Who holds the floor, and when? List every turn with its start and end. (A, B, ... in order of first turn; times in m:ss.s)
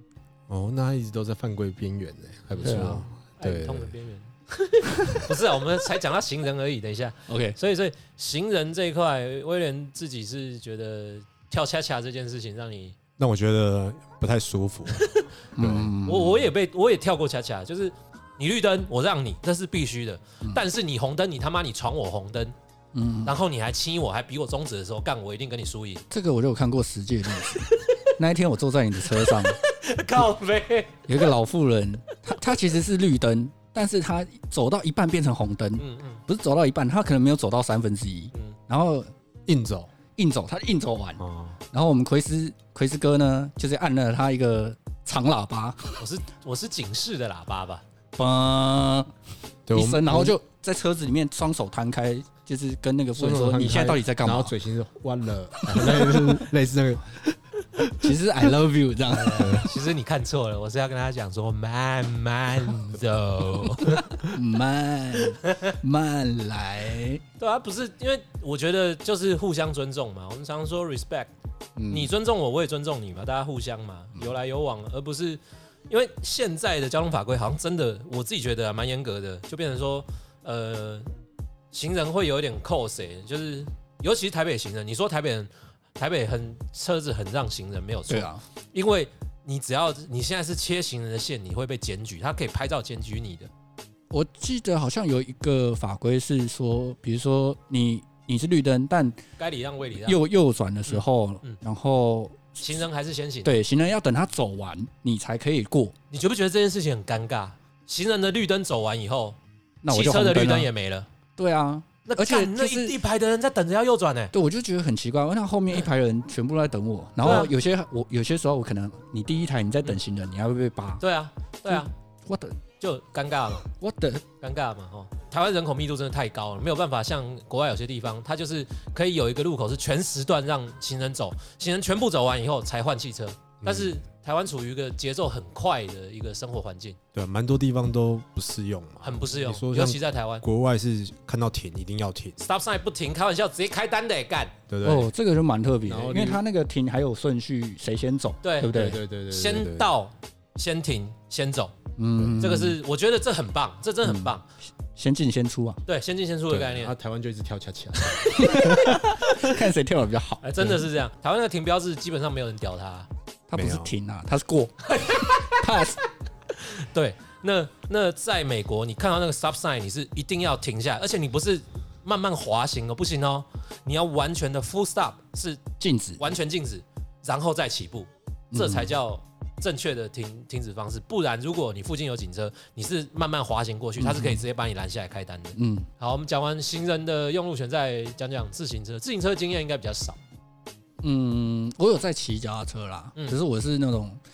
0:00.5-0:04.0 A
0:02.5-0:13.0 B
0:02.6-0:03.1 C
0:07.3-0:07.6 C
0:13.2-0:15.9 A
0:15.6-0:16.5 C
0:16.0-0:22.6 B
0:22.9-0:23.3 C
0:23.2-0:26.0 B
0:26.1-0:29.6 C
0:29.2-0:31.0 B
0:31.1-0:39.1 C
0:35.8-0:36.2 B
0:39.5-0:39.9 A
0:40.2-0:45.8 C
0:41.2-0:41.6 A
0:46.0-0:47.8 B
0:48.2-0:49.1 C
0:49.7-0:50.4 A
0:49.7-0:54.5 C
0:53.2-0:58.1 A
0:58.0-0:59.6 C
0:59.1-1:04.3 B
0:59.3-0:59.7 A
1:04.3-1:07.2 C
1:05.4-1:05.8 B
1:07.4-1:11.3 B
1:11.8-1:12.1 C
1:11.9-1:21.1 B
1:21.7-1:33.5 B
1:28.1-1:28.4 C
1:34.1-1:39.2 C
1:39.4-1:40.2 B
1:40.0-1:42.8 C
1:40.9-1:41.6 B
1:42.6-1:43.6 B
1:43.4-1:46.0 C
1:46.1-1:49.4 B
1:49.8-1:50.7 C
1:49.9-1:51.1 B
1:51.4-1:53.0 C
1:52.1-1:54.3 B
1:54.3-2:01.0 C
1:57.2-1:57.5 B
2:01.0-2:01.9 B
2:01.7-2:02.6 C
2:02.8-2:03.7 B
2:03.8-2:04.2 C
2:04.4-2:17.0 B
2:13.6-2:14.0 A
2:17.1-2:22.4 A
2:19.0-2:20.4 B
2:22.4-2:24.6 B
2:24.7-2:25.1 A
2:24.8-2:29.0 C
2:25.8-2:26.4 A
2:28.4-2:31.7 B
2:28.7-2:29.9 A
2:32.0-2:32.8 C
2:32.2-2:32.6 A
2:32.4-2:34.5 B
2:34.0-2:34.3 C
2:35.0-2:35.8 C
2:35.9-2:37.0 B
2:36.5-2:38.5 A
2:38.3-2:40.8 C
2:40.4-2:43.1 B
2:43.5-2:46.0 C
2:43.5-2:43.9 A
2:44.9-2:45.7 B
2:46.5-2:55.6 B
2:55.8-2:56.2 C
2:56.2-3:10.2 B
2:58.5-2:58.9 C
3:04.0-3:04.4 C
3:05.6-3:05.9 C
3:11.0-3:14.2 C